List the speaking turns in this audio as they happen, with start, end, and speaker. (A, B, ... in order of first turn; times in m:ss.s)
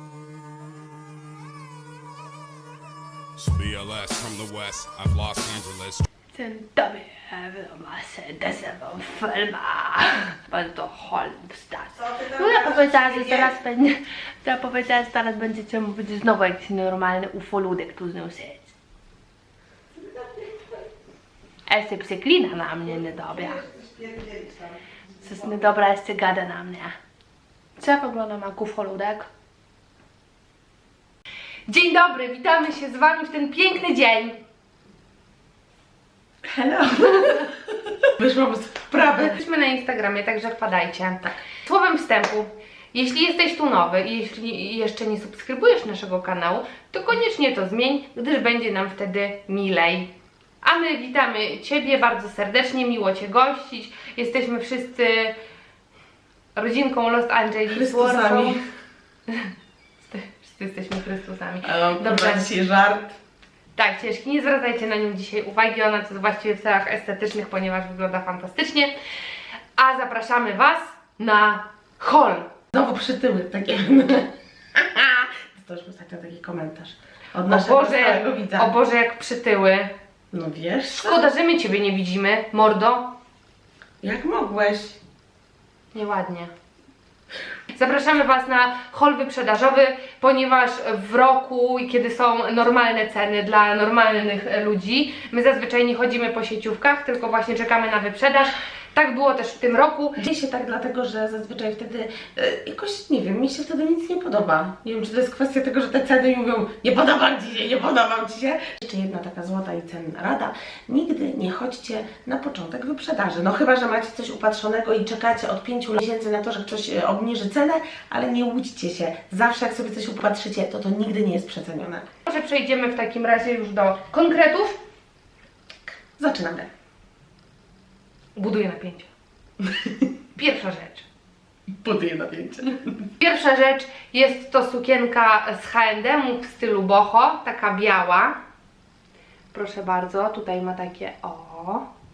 0:03.4-0:06.0 A
0:06.3-0:18.7 B
0:12.0-0:13.5 C
0:21.7-0:23.6 B
0:22.9-0:25.6 C
0:25.2-0:26.9 B
0:27.8-0:29.3 B
0:31.7-0:34.4 B
0:36.5-0:39.4 C
0:39.1-0:50.1 B
0:50.6-0:55.3 B
0:56.6-0:58.6 B
0:57.7-0:58.6 C
1:00.1-1:02.5 B
1:01.6-1:03.2 C
1:03.8-1:08.9 B
1:09.8-1:12.5 B
1:12.7-1:18.8 C
1:17.5-1:19.9 B
1:20.3-1:21.3 C
1:20.9-1:23.1 B
1:24.0-1:25.0 C
1:25.9-1:26.5 B
1:27.7-1:40.2 B
1:40.2-2:02.1 C
2:02.2-2:04.8 B
2:05.8-2:06.7 C
2:08.4-2:09.1 B
2:10.4-2:11.0 B
2:11.8-2:12.9 C
2:13.2-2:18.4 B
2:19.5-2:21.8 B